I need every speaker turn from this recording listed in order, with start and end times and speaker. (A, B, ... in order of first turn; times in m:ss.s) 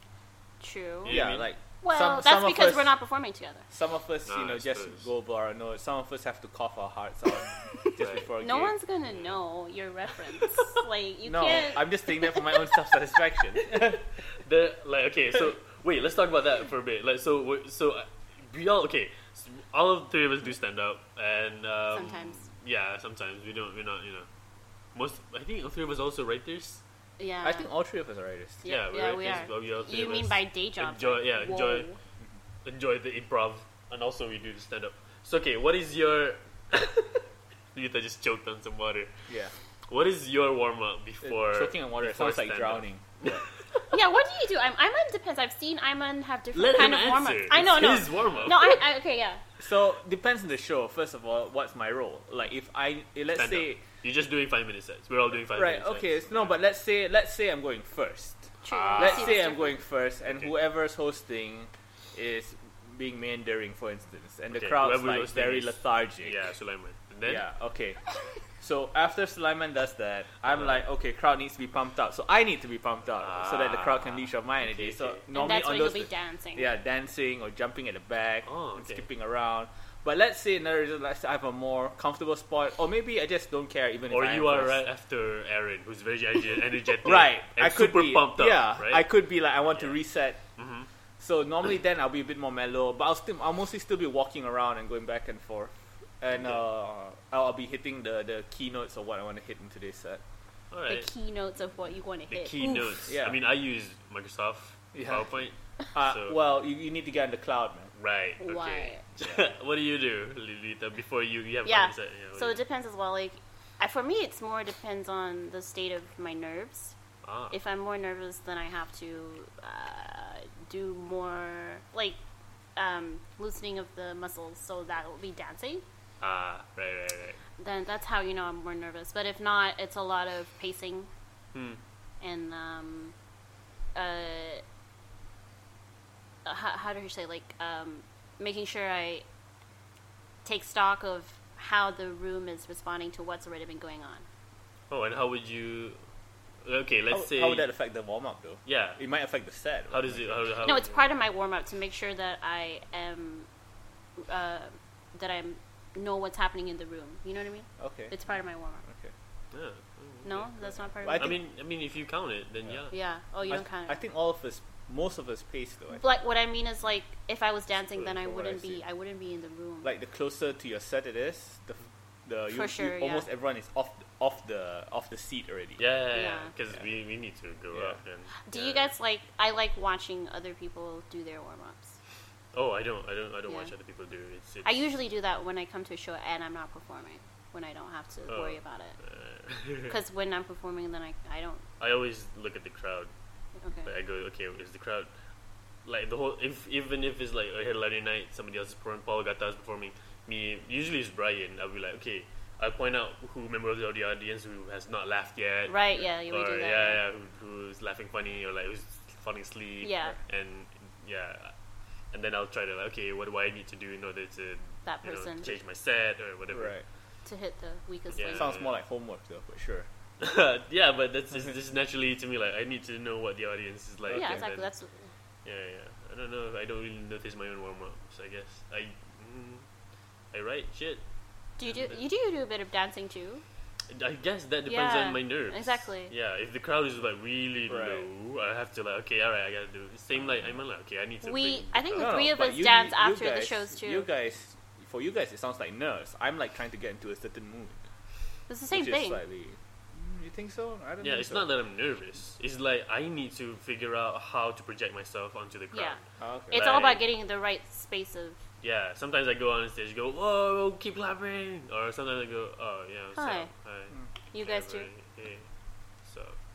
0:00.6-0:01.2 A
0:01.0-0:01.5 B
0:01.1-0:02.9 C
0:01.8-0:03.6 A
0:03.7-0:08.7 C
0:04.3-0:05.1 B
0:07.6-0:12.4 A
0:08.0-0:08.3 B
0:09.1-0:09.4 B
0:11.2-0:14.0 C
0:13.7-0:24.3 B
0:21.9-0:22.4 A
0:24.9-0:26.8 B
0:27.2-0:27.7 A
0:27.4-0:28.6 C
0:28.6-0:32.0 A
0:28.6-0:31.9 B
0:32.6-0:39.1 B
0:39.3-0:39.5 C
0:39.9-0:43.9 B
0:41.2-0:43.4 C
0:43.9-0:49.4 A
0:46.5-0:48.8 B
0:48.2-0:48.5 C
0:49.6-0:53.8 C
0:53.3-0:56.5 B
0:55.5-1:06.4 C
0:58.6-0:59.8 A
0:58.7-0:59.4 B
1:00.2-1:00.5 B
1:04.5-1:07.4 B
1:07.2-1:08.0 C
1:08.6-1:24.8 C
1:10.4-1:10.8 B
1:13.2-1:15.2 B
1:15.3-1:16.7 A
1:18.4-1:19.1 B
1:24.1-1:29.1 B
1:27.0-1:30.4 C
1:29.7-1:30.0 B
1:30.6-1:30.9 B
1:31.2-1:40.2 C
1:36.4-1:36.6 B
1:40.7-1:41.1 B
1:40.9-1:43.0 A
1:42.3-1:46.4 B
1:43.1-1:43.4 C
1:44.9-1:45.3 C
1:45.9-1:47.9 C
1:48.0-1:52.6 B
1:48.4-1:49.0 A
1:51.6-1:56.9 A
1:57.2-1:57.5 B
1:57.5-2:02.2 A
2:02.8-2:05.8 A
2:06.2-2:07.4 B
2:07.6-2:11.1 A
2:11.5-2:11.8 B
2:12.2-2:13.1 A
2:13.9-2:14.6 A
2:16.4-2:19.2 A
2:20.4-2:24.2 A
2:24.9-2:26.0 B
2:26.6-2:27.7 B
2:27.1-2:30.5 C
2:28.6-2:29.0 B
2:29.9-2:31.1 B
2:30.6-2:33.5 A
2:34.2-2:38.8 A
2:37.8-2:38.1 C
2:38.8-2:39.1 C
2:39.5-2:42.9 B
2:40.2-2:41.4 A
2:41.0-2:41.4 C
2:42.9-2:44.0 A
2:43.5-2:46.0 C
2:45.9-2:49.9 A
2:48.0-2:48.8 C
2:49.8-2:55.8 C
2:52.5-2:53.2 A
2:55.8-2:58.9 B
2:56.1-2:56.5 A
2:57.7-2:58.0 C
2:58.4-3:02.0 A
3:02.5-3:04.8 B
3:04.6-3:09.0 A
3:08.3-3:10.0 B
3:09.9-3:11.6 A
3:11.8-3:13.1 B
3:13.6-3:13.9 A
3:13.8-3:15.1 B
3:15.8-3:31.5 B
3:25.7-3:27.0 A
3:29.8-3:30.2 A
3:32.1-3:36.8 B
3:34.8-3:35.6 A
3:36.5-3:36.8 C
3:37.2-3:38.5 A
3:38.1-3:38.7 B
3:38.3-3:39.9 C
3:40.2-3:44.7 B
3:44.1-3:44.4 C
3:44.1-3:45.1 A
3:45.4-3:49.6 B
3:50.3-3:51.0 B
3:51.6-3:53.4 A
3:51.6-3:52.0 B
3:53.9-4:02.2 B
3:54.7-3:56.1 A
3:57.7-3:58.1 C
4:01.2-4:04.1 A
4:02.0-4:07.8 C
4:08.5-4:09.2 A
4:08.7-4:11.5 C
4:11.0-4:17.0 B
4:15.7-4:16.0 A
4:16.2-4:16.6 C
4:16.5-4:18.4 A
4:18.6-4:25.5 B
4:23.2-4:23.5 A
4:24.3-4:24.9 A
4:26.0-4:26.4 B